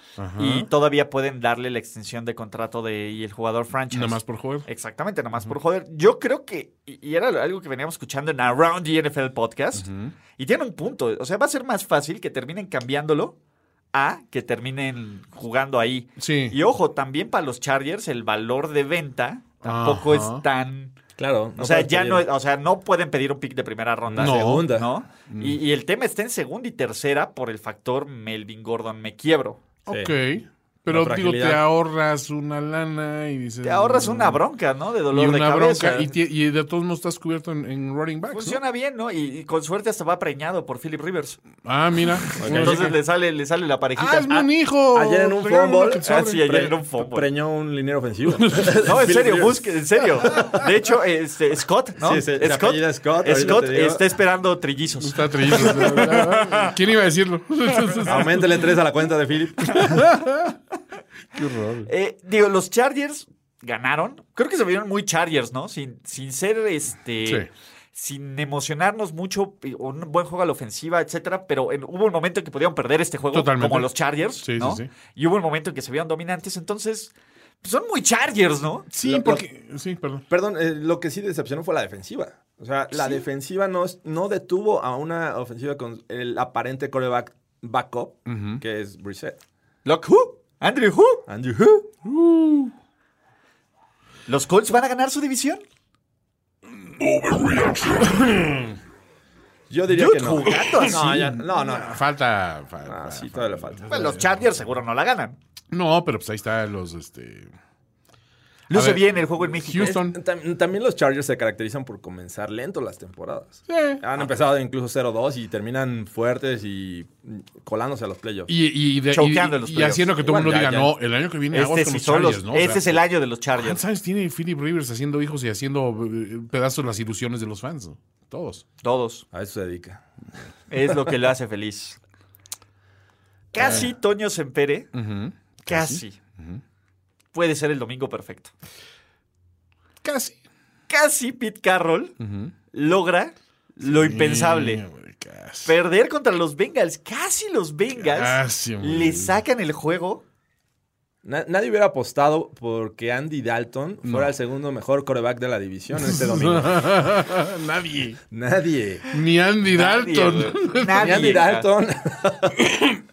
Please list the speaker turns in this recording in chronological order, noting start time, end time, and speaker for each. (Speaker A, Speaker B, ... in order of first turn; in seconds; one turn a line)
Speaker A: 0.2-0.7
Speaker B: 0.4-9.9
Speaker A: 3.9-4.7
Speaker A: 9.8-10.1
Speaker B: 10.4-13.3
Speaker B: 13.9-21.0
Speaker A: 16.2-16.6
Speaker A: 19.6-20.4
Speaker C: 21.2-22.3
Speaker B: 21.6-29.6
Speaker C: 24.1-24.9
Speaker A: 24.2-24.7
Speaker A: 25.3-25.6
Speaker A: 29.9-34.4
Speaker C: 29.9-30.1
Speaker C: 30.9-31.6
Speaker B: 33.6-36.1
Speaker A: 35.1-38.6
Speaker B: 38.3-41.4
Speaker A: 41.6-43.0
Speaker C: 42.4-42.9
Speaker B: 42.4-44.4
Speaker A: 44.0-46.4
Speaker C: 44.3-49.6
Speaker B: 46.1-47.3
Speaker A: 48.4-48.8
Speaker B: 48.8-56.7
Speaker C: 52.0-54.0
Speaker A: 55.0-58.6
Speaker C: 58.1-60.0
Speaker A: 59.7-60.5
Speaker A: 61.4-61.9
Speaker B: 61.9-77.1
Speaker A: 73.3-74.9
Speaker B: 77.6-78.9
Speaker A: 78.9-80.2
Speaker C: 79.0-79.4
Speaker C: 80.3-89.4
Speaker A: 88.3-88.6
Speaker B: 89.8-91.2
Speaker C: 91.3-91.9
Speaker A: 92.0-92.7
Speaker B: 94.3-95.6
Speaker A: 97.3-98.7
Speaker C: 99.7-102.0
Speaker B: 99.9-101.3
Speaker A: 100.8-104.3
Speaker C: 102.9-104.2
Speaker B: 103.9-105.4
Speaker A: 105.7-107.5
Speaker B: 108.7-110.0
Speaker A: 108.7-110.2
Speaker C: 109.8-118.5
Speaker A: 113.7-114.0
Speaker A: 118.5-123.0
Speaker B: 119.1-120.3
Speaker C: 120.2-120.9
Speaker B: 121.5-123.8
Speaker A: 123.6-128.6
Speaker B: 128.8-129.2
Speaker C: 129.3-130.0
Speaker B: 130.7-132.0
Speaker B: 133.5-134.9
Speaker A: 133.6-133.9
Speaker A: 134.9-136.6
Speaker B: 135.7-136.2
Speaker B: 137.3-138.5
Speaker A: 140.0-140.4
Speaker B: 140.9-142.1
Speaker A: 142.2-142.5
Speaker B: 142.7-144.8
Speaker A: 143.8-145.7
Speaker B: 145.7-150.2
Speaker A: 147.9-149.4
Speaker C: 151.2-156.9
Speaker A: 154.1-154.3
Speaker A: 156.0-158.2
Speaker C: 158.3-159.1
Speaker A: 159.1-161.3
Speaker B: 159.7-161.7
Speaker C: 161.0-162.9